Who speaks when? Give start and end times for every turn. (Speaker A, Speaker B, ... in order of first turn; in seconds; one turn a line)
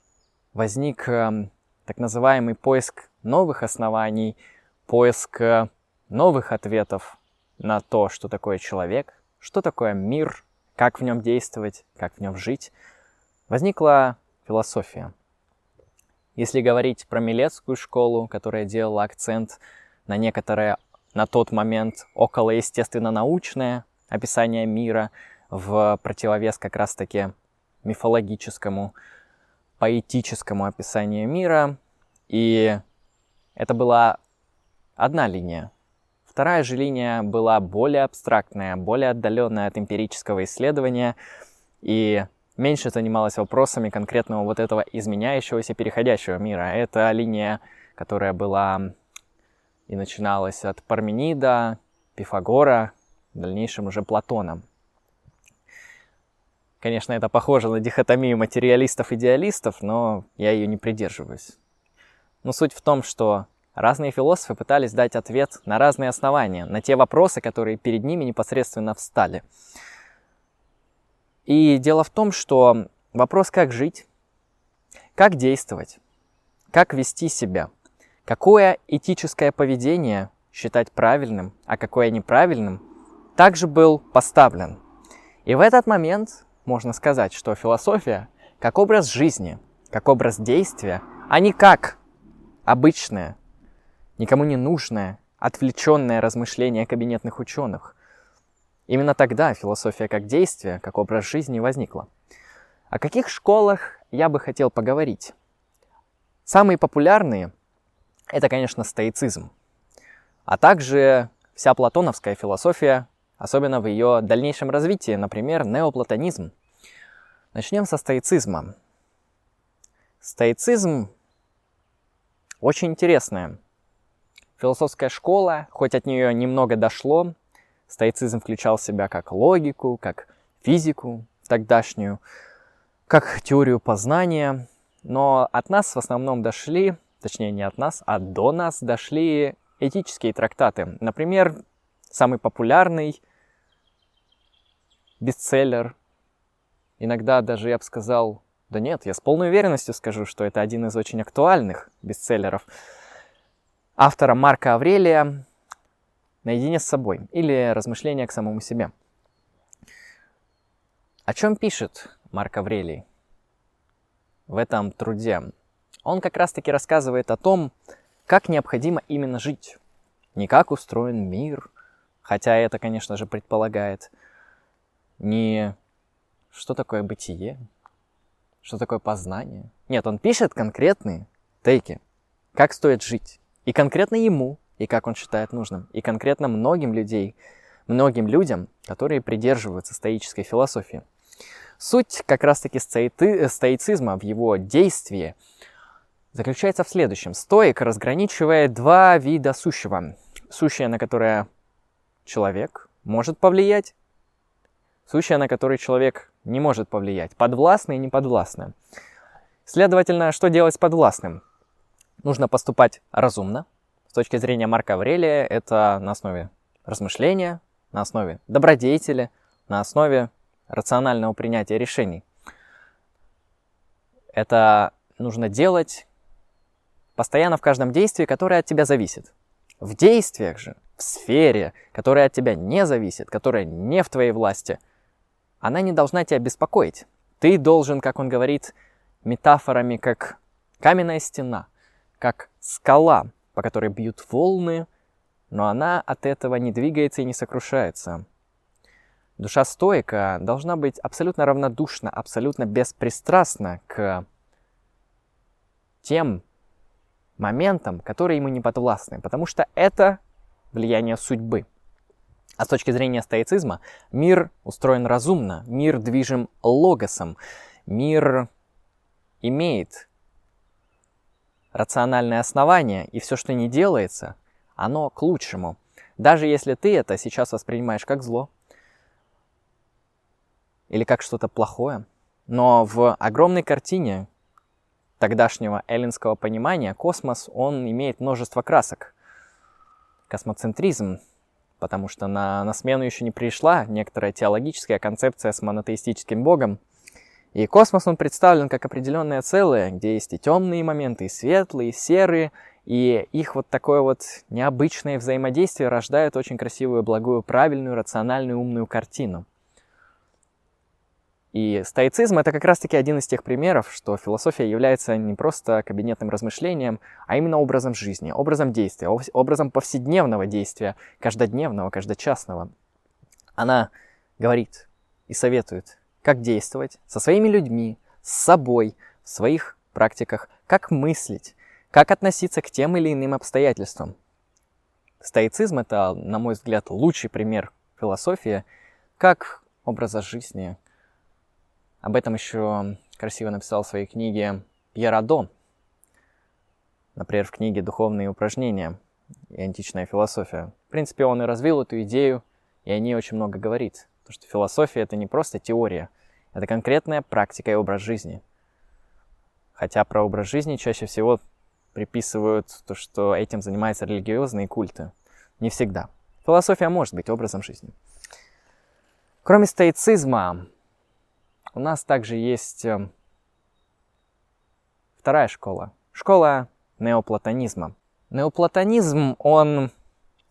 Speaker A: 0.5-12.7
Speaker A: 13.5-15.1
Speaker A: 16.4-27.3
Speaker A: 27.8-28.9
Speaker A: 29.8-31.8
Speaker A: 32.3-32.8
Speaker A: 33.6-34.2
Speaker A: 35.0-35.7
Speaker A: 36.3-41.2
Speaker A: 41.8-48.9
Speaker A: 49.9-54.6
Speaker A: 56.8-61.6
Speaker A: 62.4-69.5
Speaker A: 71.5-74.1
Speaker A: 75.2-76.0
Speaker A: 76.7-77.7
Speaker A: 78.2-82.8
Speaker A: 83.4-84.8
Speaker A: 85.5-92.0
Speaker A: 92.7-93.4
Speaker A: 94.2-98.0
Speaker A: 98.9-102.1
Speaker A: 102.9-105.3
Speaker A: 106.5-107.5
Speaker A: 108.3-109.5
Speaker A: 110.5-116.5
Speaker A: 117.5-118.7
Speaker A: 120.2-121.1
Speaker A: 122.6-123.6
Speaker A: 124.6-127.3
Speaker A: 127.9-132.2
Speaker A: 133.1-141.6
Speaker A: 142.1-143.2
Speaker A: 145.2-145.9
Speaker A: 147.0-152.7
Speaker A: 154.0-155.4
Speaker A: 156.4-158.9
Speaker A: 161.3-163.0
Speaker A: 164.5-165.5
Speaker A: 166.1-167.7
Speaker A: 168.3-169.8
Speaker A: 170.3-171.7
Speaker A: 172.2-174.1
Speaker A: 175.2-175.8
Speaker A: 176.5-177.6
Speaker A: 178.6-182.0
Speaker A: 182.6-187.4
Speaker A: 187.9-191.0
Speaker A: 191.8-195.4
Speaker A: 196.3-201.5
Speaker A: 202.3-203.9
Speaker A: 205.1-208.7
Speaker A: 209.7-211.4
Speaker A: 212.2-222.2
Speaker A: 224.4-226.1
Speaker A: 227.2-234.8
Speaker A: 235.6-241.7
Speaker A: 242.2-244.9
Speaker A: 245.5-248.2
Speaker A: 249.4-254.2
Speaker A: 256.0-256.4
Speaker A: 257.4-260.2
Speaker A: 260.7-261.6
Speaker A: 262.6-268.5
Speaker A: 269.4-270.1
Speaker A: 271.7-278.5
Speaker A: 280.9-284.3
Speaker A: 285.2-289.1
Speaker A: 290.3-291.2
Speaker A: 291.8-296.8
Speaker A: 297.5-309.5
Speaker A: 311.5-322.7
Speaker A: 323.6-334.1
Speaker A: 335.2-338.6
Speaker A: 339.2-340.8
Speaker A: 342.0-345.5
Speaker A: 347.2-349.0
Speaker A: 349.5-358.4
Speaker A: 359.8-361.4
Speaker A: 361.9-367.9
Speaker A: 369.4-370.7
Speaker A: 371.8-373.1
Speaker A: 375.2-379.9